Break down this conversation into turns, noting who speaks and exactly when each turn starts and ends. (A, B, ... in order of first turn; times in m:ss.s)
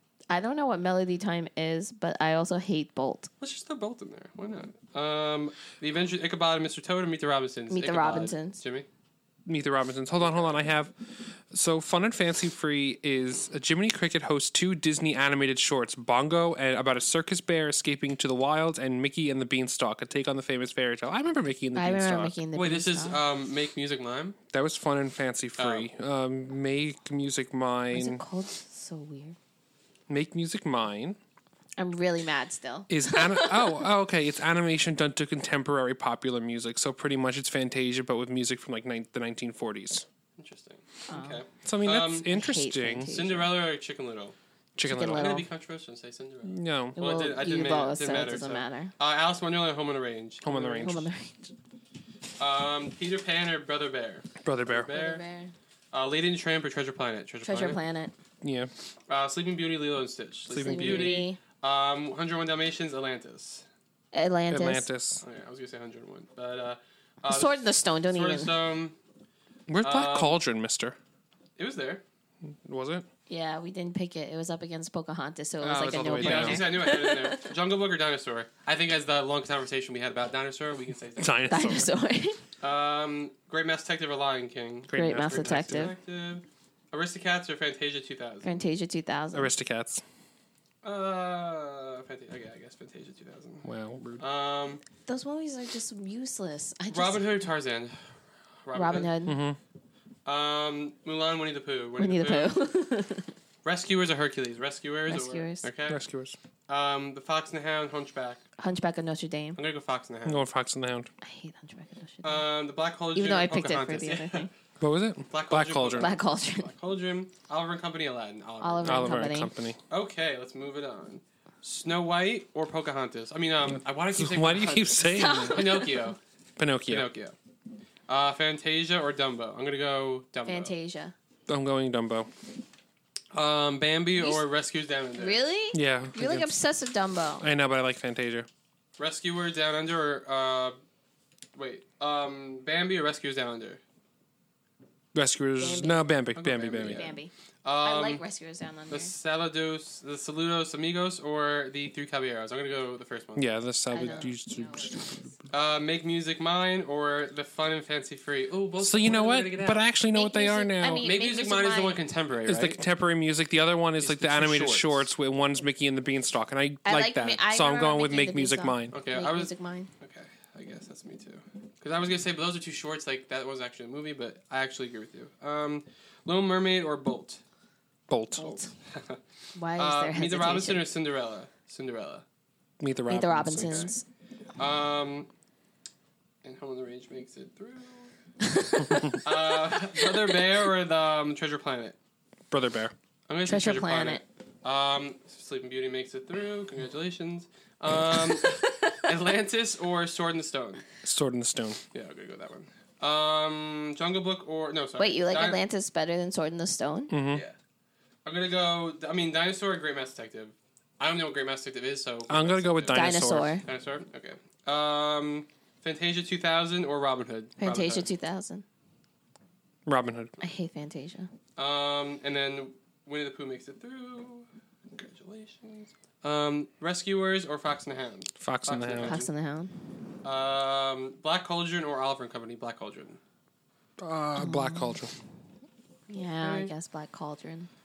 0:00.3-0:03.3 A
0:03.4-0:08.9 B
0:07.7-0:08.6 A
0:09.4-0:22.4 C
0:10.2-0:10.6 B
0:21.7-0:23.2 A
0:22.6-0:24.4 B
0:24.5-0:28.2 C
0:25.6-0:25.9 B
0:27.9-0:29.4 A
0:30.1-0:31.2 C
0:31.8-0:33.8 A
0:32.9-0:40.0 C
0:40.4-0:42.3 B
0:41.1-0:41.4 A
0:41.6-0:43.2 C
0:42.3-0:43.5 A
0:43.1-0:44.3 B
0:44.8-0:45.4 C
0:44.8-0:45.4 A
0:45.0-0:50.9 B
0:46.4-0:47.0 C
0:47.0-0:48.9 A
0:50.4-0:51.1 C
0:50.8-0:51.4 A
0:52.4-0:55.2 B
0:54.4-0:54.9 C
0:54.9-0:55.5 A
0:55.9-0:57.8 B
0:57.4-0:58.1 A
0:58.4-0:58.7 C
0:59.1-1:03.6 B
1:00.5-1:01.2 C
1:00.6-1:01.4 A
1:04.1-1:04.8 A
1:04.5-1:05.2 C
1:05.2-1:09.0 B
1:07.2-1:08.5 A
1:09.7-1:11.0 C
1:09.8-1:10.4 B
1:11.6-1:12.0 B
1:12.4-1:13.0 C
1:13.3-1:17.5 A
1:15.6-1:16.6 C
1:16.0-1:21.4 B
1:21.2-1:21.9 C
1:21.5-1:22.4 A
1:22.6-1:28.6 B
1:24.9-1:25.9 C
1:24.9-1:25.9 A
1:28.4-1:29.5 A
1:29.3-1:30.0 C
1:30.8-1:34.8 B
1:33.6-1:34.2 C
1:35.1-1:37.2 A
1:36.9-1:38.0 B
1:38.6-1:39.1 B
1:38.7-1:39.4 A
1:39.2-1:39.6 C
1:40.2-1:42.5 B
1:42.0-1:43.3 A
1:43.6-1:46.0 B
1:45.1-1:45.7 A
1:45.9-1:46.4 C
1:46.7-1:48.4 B
1:48.6-1:49.6 A
1:49.6-1:50.4 B
1:50.2-1:51.1 C
1:51.2-1:52.4 A
1:52.2-1:54.5 B
1:53.1-1:54.5 A
1:54.8-1:56.1 C
1:55.3-1:59.2 B
1:56.0-1:56.7 A
1:58.6-1:59.5 A
1:58.8-1:59.8 C
1:59.9-2:06.2 B
2:03.6-2:05.7 C
2:05.1-2:06.1 A
2:06.6-2:07.1 C
2:06.9-2:07.3 B
2:08.1-2:10.7 B
2:10.4-2:11.1 A
2:11.5-2:12.3 C
2:13.3-2:15.4 B
2:14.2-2:14.4 A
2:15.2-2:17.4 A
2:15.7-2:16.5 C
2:17.4-2:18.5 C
2:19.0-2:20.8 B
2:21.5-2:23.8 B
2:25.1-2:27.1 C
2:25.6-2:26.1 A
2:26.3-2:28.2 B
2:26.8-2:27.3 A
2:27.8-2:29.1 A
2:28.9-2:33.5 B
2:33.4-2:35.4 C
2:33.9-2:34.9 A
2:35.5-2:39.9 B
2:38.8-2:41.0 C
2:40.1-2:42.0 A
2:41.0-2:42.8 B
2:42.4-2:49.0 C
2:44.0-2:45.1 B
2:46.8-2:49.9 A
2:48.9-2:57.4 B
2:58.1-2:58.5 C
2:58.4-2:58.6 A
2:58.4-2:59.2 B
2:59.5-3:00.8 A
2:59.8-3:02.2 B
3:02.8-3:03.9 C
3:03.1-3:04.0 A
3:03.6-3:03.9 B
3:04.6-3:05.3 B
3:06.4-3:08.1 B
3:08.4-3:10.3 A
3:09.2-3:12.0 B
3:12.5-3:12.9 C
3:13.3-3:20.9 B
3:13.4-3:14.2 A
3:18.1-3:19.1 A
3:21.0-3:21.8 C
3:21.9-3:25.6 B
3:25.0-3:27.1 A
3:27.1-3:27.4 C
3:28.2-3:33.1 B
3:32.3-3:33.6 C
3:32.9-3:33.6 A
3:33.6-3:38.1 B
3:37.6-3:38.6 A
3:39.8-3:40.4 C
3:40.4-3:41.3 A
3:41.6-3:49.3 B
3:48.4-3:49.2 C
3:49.0-3:49.8 A
3:50.2-3:53.2 B
3:54.0-3:55.1 C
3:54.4-3:55.0 A
3:56.1-3:57.7 A
3:56.4-3:56.7 B